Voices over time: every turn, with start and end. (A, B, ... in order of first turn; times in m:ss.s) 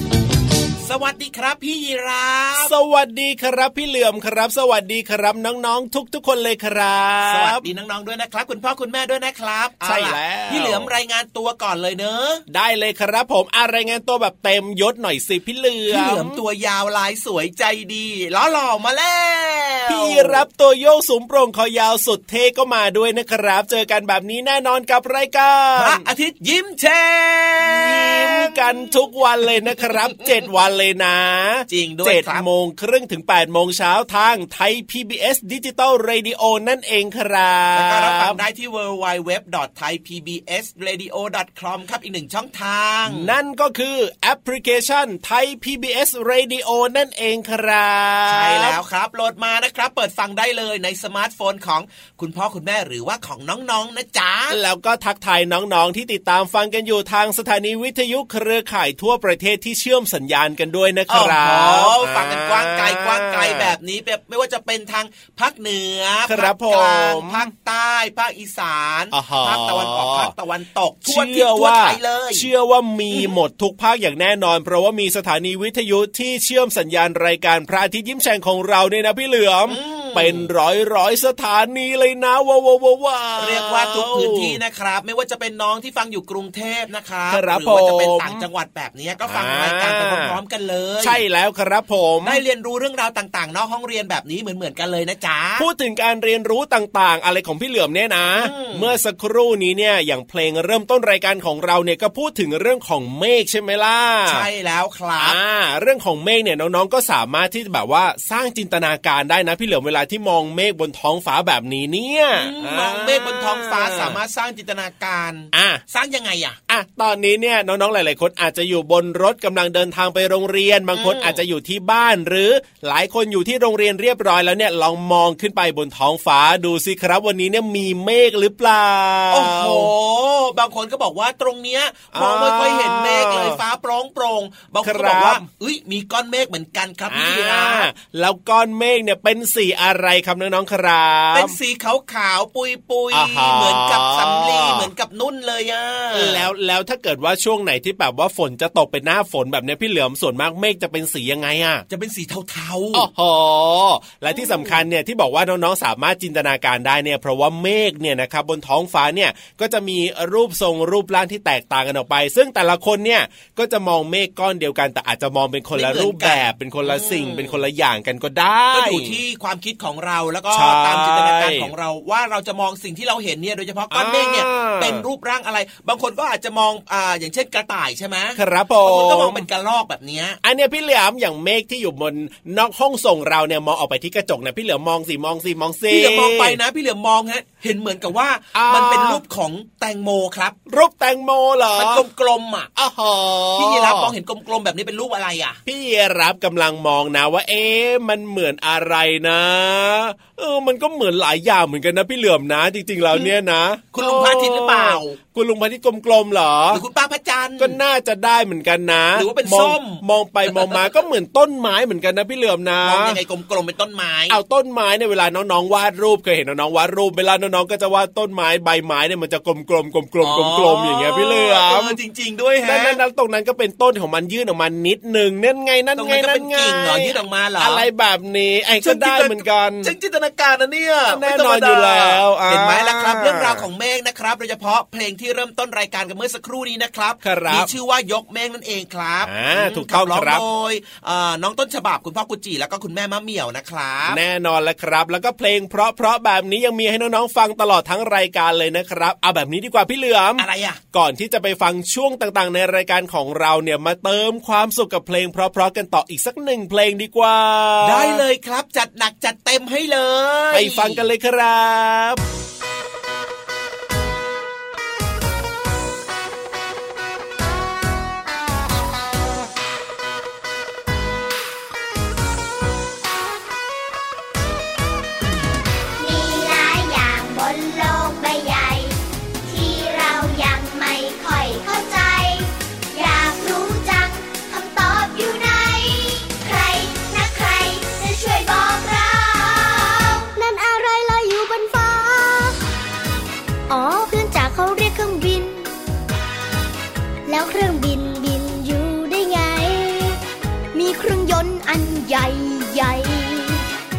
0:00.8-0:02.7 A
0:02.6-0:07.7 B
0:07.3-0:12.4 A
0:09.8-0:10.9 B
0:12.5-0:16.4 B
0:15.9-0:20.4 A
0:19.9-0:26.0 B
0:25.8-0:28.6 A
0:27.6-0:38.4 B
0:31.7-0:32.4 A
0:37.7-0:43.3 A
0:43.1-0:48.8 B
0:48.3-0:54.6 A
0:54.5-1:03.8 B
1:01.1-1:12.5 A
1:06.3-1:07.5 B
1:09.1-1:10.3 B
1:11.0-1:24.6 B
1:19.7-1:20.5 A
1:23.4-1:31.2 A
1:27.3-1:28.4 B
1:29.2-1:30.4 B
1:31.0-1:32.4 B
1:32.2-1:35.7 A
1:35.6-1:44.5 B
1:38.4-1:39.0 A
1:44.3-1:45.4 A
1:45.2-1:54.2 B
1:52.3-1:56.6 A
1:55.5-1:55.8 B
1:56.7-2:09.9 B
2:00.9-2:01.4 A
2:09.3-2:17.9 A
2:12.1-2:13.6 B
2:14.8-2:15.4 B
2:17.1-2:21.6 B
2:21.3-2:26.5 A
2:23.1-2:24.9 B
2:26.1-2:31.8 B
2:31.9-2:33.1 A
2:32.9-2:49.2 B
2:34.3-2:34.8 A
2:45.8-2:47.6 A
2:48.7-3:00.4 A
2:50.5-2:51.7 B
2:53.9-2:55.0 B
2:58.4-2:59.5 B
3:00.4-3:06.6 B
3:05.9-3:10.6 A
3:08.5-3:09.2 B
3:10.7-3:12.0 B
3:11.8-3:12.7 A
3:12.8-3:14.1 B
3:13.6-3:15.6 A
3:15.7-3:26.8 B
3:23.9-3:25.2 A
3:26.7-3:27.8 A
3:27.6-3:33.2 B
3:29.2-3:30.8 A
3:32.8-3:34.4 A
3:34.3-3:42.0 B
3:40.2-3:43.0 A
3:42.6-3:49.9 B
3:46.0-3:47.8 A
3:48.8-4:04.2 A
3:51.1-3:53.7 B
3:57.2-3:57.7 B
3:59.2-4:00.4 B
4:04.1-4:18.2 B
4:10.4-4:10.8 A
4:17.8-4:21.1 A
4:20.5-4:22.2 B
4:36.0-4:50.3 C
4:50.3-4:52.6 D
4:53.7-4:55.7 D
4:57.3-5:00.2 D
5:00.7-5:03.6 D